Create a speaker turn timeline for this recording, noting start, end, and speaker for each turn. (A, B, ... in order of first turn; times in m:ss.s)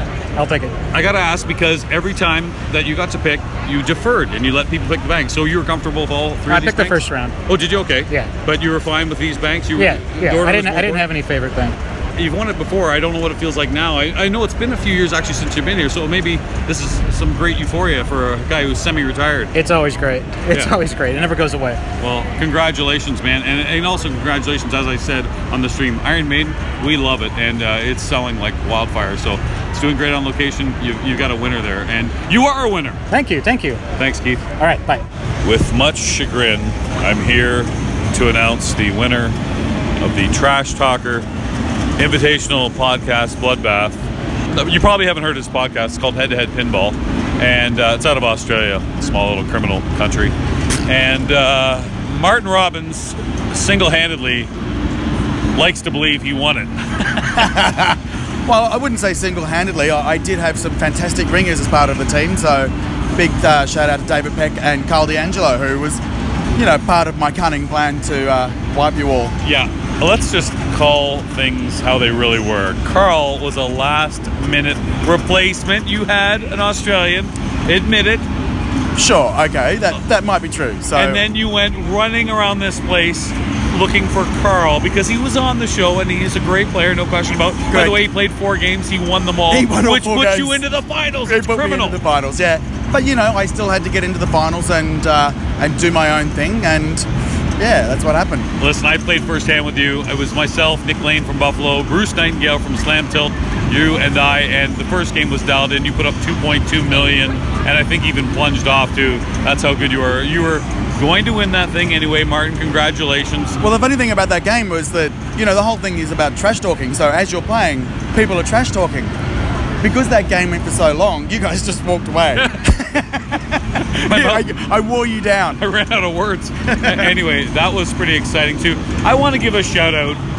0:00.4-0:00.7 A
0:00.9-0:11.0 B
0:06.5-0:07.3 A
0:09.8-0:11.8 A
0:12.2-0:19.5 B
0:19.5-0:21.8 A
0:22.0-0:33.0 B
0:33.1-0:33.8 A
0:34.0-0:34.4 B
0:34.6-0:35.0 A
0:35.4-0:39.4 B
0:40.0-0:41.2 B
0:42.0-0:44.0 B
0:44.5-0:50.3 B
0:50.8-0:54.5 B
0:55.5-0:57.3 B
0:57.3-1:06.0 C
1:06.6-1:09.3 C
1:09.4-1:18.3 B
1:19.0-1:21.2 C
1:20.9-1:32.0 B
1:27.7-1:28.0 C
1:29.5-1:30.6 C
1:31.2-1:37.1 C
1:37.6-1:38.5 C
1:38.6-1:53.6 B
1:53.6-1:59.1 C
1:59.8-2:03.4 C
2:04.0-2:05.6 C
2:04.0-2:04.5 B
2:05.6-2:10.2 B
2:06.7-2:07.2 C